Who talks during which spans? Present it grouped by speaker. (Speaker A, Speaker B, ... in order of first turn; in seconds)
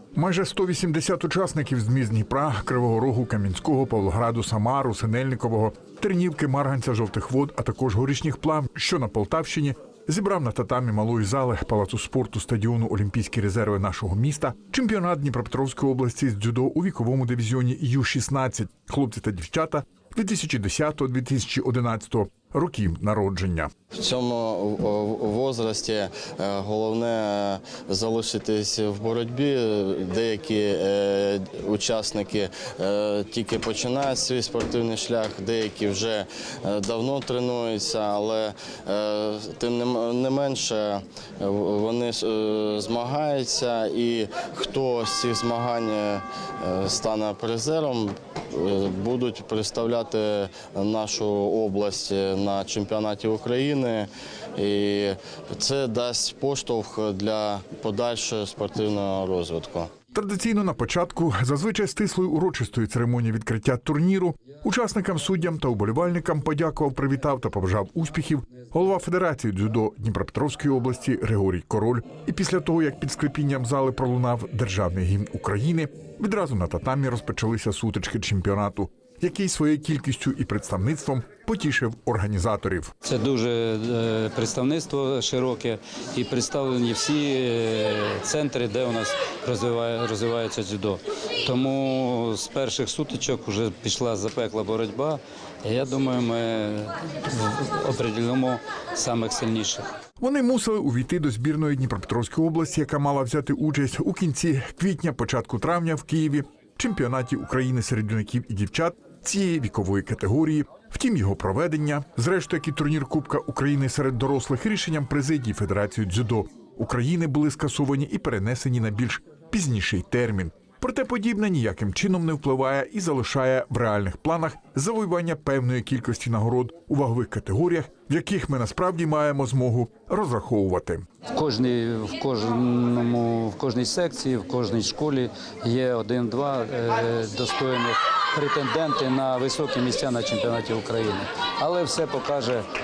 Speaker A: 0.1-23.7, 60.1-82.9, 100.2-131.1
Speaker B: 23.9-59.9
Speaker C: 83.0-99.9, 131.3-142.7